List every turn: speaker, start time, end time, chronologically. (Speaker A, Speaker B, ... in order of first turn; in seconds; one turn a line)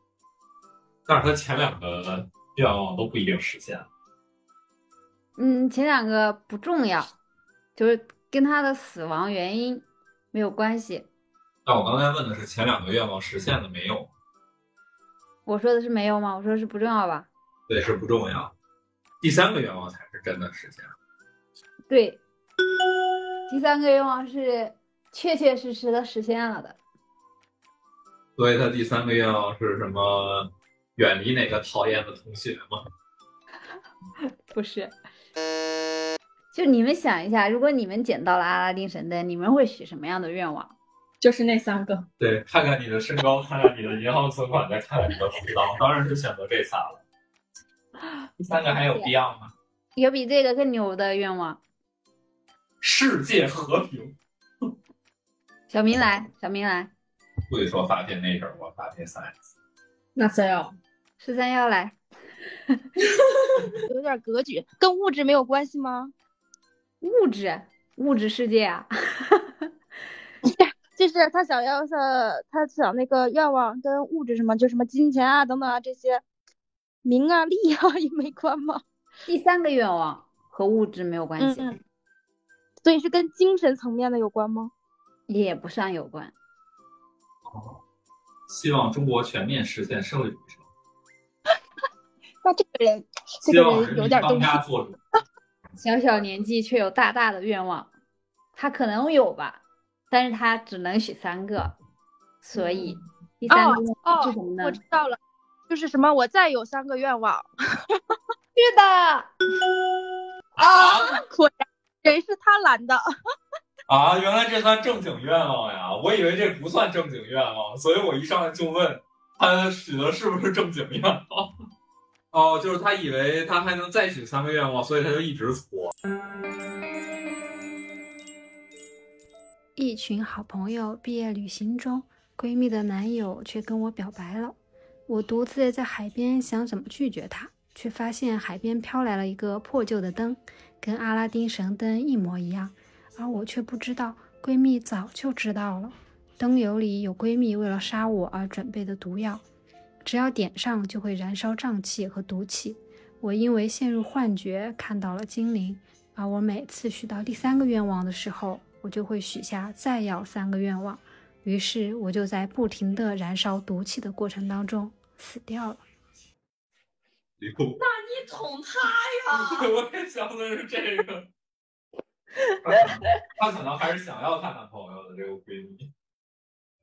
Speaker A: 1.1-3.9
Speaker B: 5.4-7.1
Speaker B: 7.8-11.1
Speaker A: 11.7-14.1
Speaker B: 15.4-17.3
Speaker A: 17.7-18.5
Speaker A: 19.2-20.9
Speaker B: 21.9-22.2
Speaker B: 23.5-26.8
Speaker A: 28.4-32.8
Speaker B: 34.5-35.0
Speaker B: 36.5-40.7
Speaker C: 41.2-42.1
Speaker A: 42.2-47.0
Speaker A: 48.4-49.5
Speaker B: 48.7-49.1
Speaker B: 50.0-51.6
Speaker A: 52.8-54.2
Speaker B: 55.7-56.9
Speaker A: 57.5-59.3
Speaker C: 60.1-60.7
Speaker B: 61.2-62.0
Speaker D: 63.9-66.1
Speaker B: 67.0-69.5
Speaker D: 70.5-76.2
Speaker D: 77.0-78.8
Speaker B: 79.3-81.7
Speaker D: 81.4-81.8
Speaker D: 82.8-84.7
Speaker B: 85.3-86.3
Speaker A: 87.5-87.8
Speaker A: 88.5-90.6
Speaker D: 92.4-94.6
Speaker A: 93.5-95.0
Speaker B: 95.8-97.9
Speaker B: 98.5-101.8
Speaker B: 102.4-104.8
Speaker D: 103.5-105.2
Speaker D: 105.7-108.0
Speaker B: 108.5-109.3
Speaker D: 110.6-113.0
Speaker A: 110.7-111.2
Speaker A: 113.9-121.5
Speaker A: 122.3-125.9
Speaker E: 129.8-134.6
Speaker E: 135.1-149.4
Speaker E: 150.0-165.8
Speaker A: 167.4-167.8
Speaker C: 167.8-169.6
Speaker A: 169.3-171.3
Speaker A: 172.6-175.9